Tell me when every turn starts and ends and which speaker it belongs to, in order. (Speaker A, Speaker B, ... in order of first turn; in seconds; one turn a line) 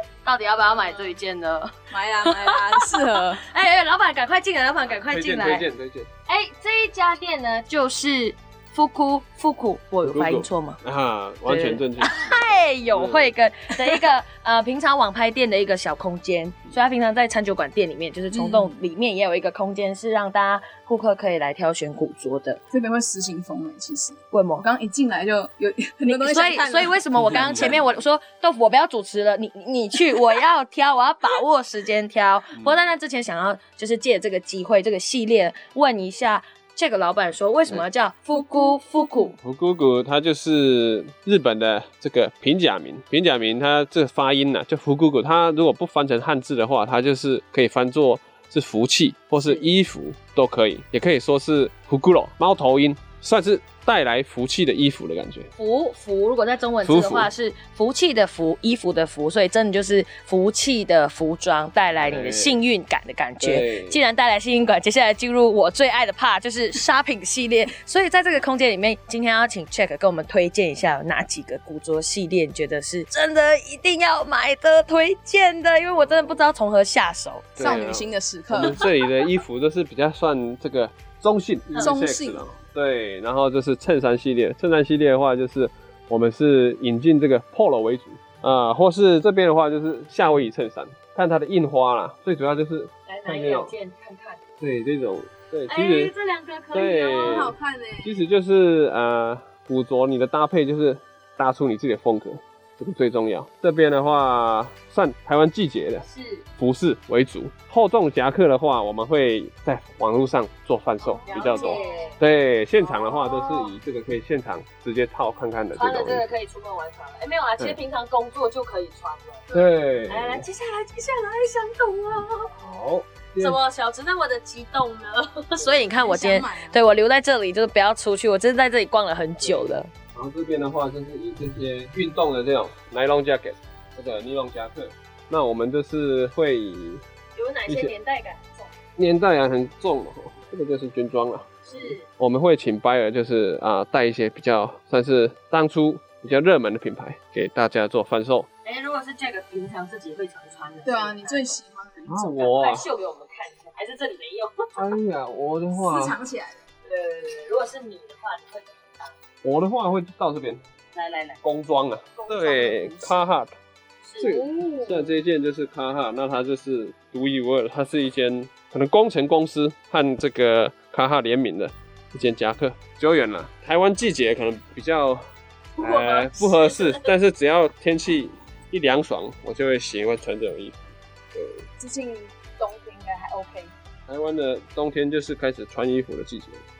Speaker A: 0.2-5.7
Speaker B: 1.9-3.4
Speaker C: 5.1-6.1
Speaker A: 6.3-10.8
Speaker C: 10.0-13.3
Speaker A: 11.4-22.6
Speaker B: 18.3-18.8
Speaker B: 22.7-27.8
Speaker A: 24.3-24.7
Speaker A: 26.0-39.4
Speaker C: 27.1-27.9
Speaker C: 32.5-32.8
Speaker C: 39.4-55.5
Speaker A: 49.4-49.7
Speaker A: 55.6-77.7
Speaker C: 56.8-57.3
Speaker C: 62.0-62.6
Speaker C: 63.4-64.0
Speaker C: 76.0-76.4
Speaker C: 77.5-93.7
Speaker B: 77.6-78.8
Speaker A: 78.6-79.1
Speaker B: 81.8-82.5
Speaker A: 93.1-94.4
Speaker C: 94.6-96.1
Speaker A: 95.7-97.5
Speaker C: 96.7-106.0
Speaker B: 97.2-98.2
Speaker A: 106.0-106.4
Speaker C: 106.6-116.2
Speaker A: 111.0-112.2
Speaker B: 111.7-111.9
Speaker A: 112.8-113.7
Speaker A: 115.7-122.5
Speaker C: 119.5-120.5
Speaker C: 122.6-123.6
Speaker A: 123.4-129.9
Speaker B: 125.9-126.8
Speaker C: 129.4-137.0
Speaker A: 137.3-138.7
Speaker C: 139.0-148.5
Speaker A: 141.6-142.1
Speaker A: 148.6-151.6
Speaker B: 150.8-152.3
Speaker C: 152.1-152.9
Speaker A: 152.3-155.0
Speaker C: 154.8-156.1
Speaker B: 155.7-156.6
Speaker A: 156.8-159.1
Speaker C: 159.4-160.6
Speaker A: 160.9-161.4
Speaker C: 161.4-163.5
Speaker A: 162.1-163.3
Speaker A: 164.0-164.9
Speaker C: 164.2-175.2
Speaker A: 175.8-177.1
Speaker C: 175.8-180.8
Speaker C: 181.3-181.6
Speaker B: 181.8-183.7
Speaker C: 184.1-186.6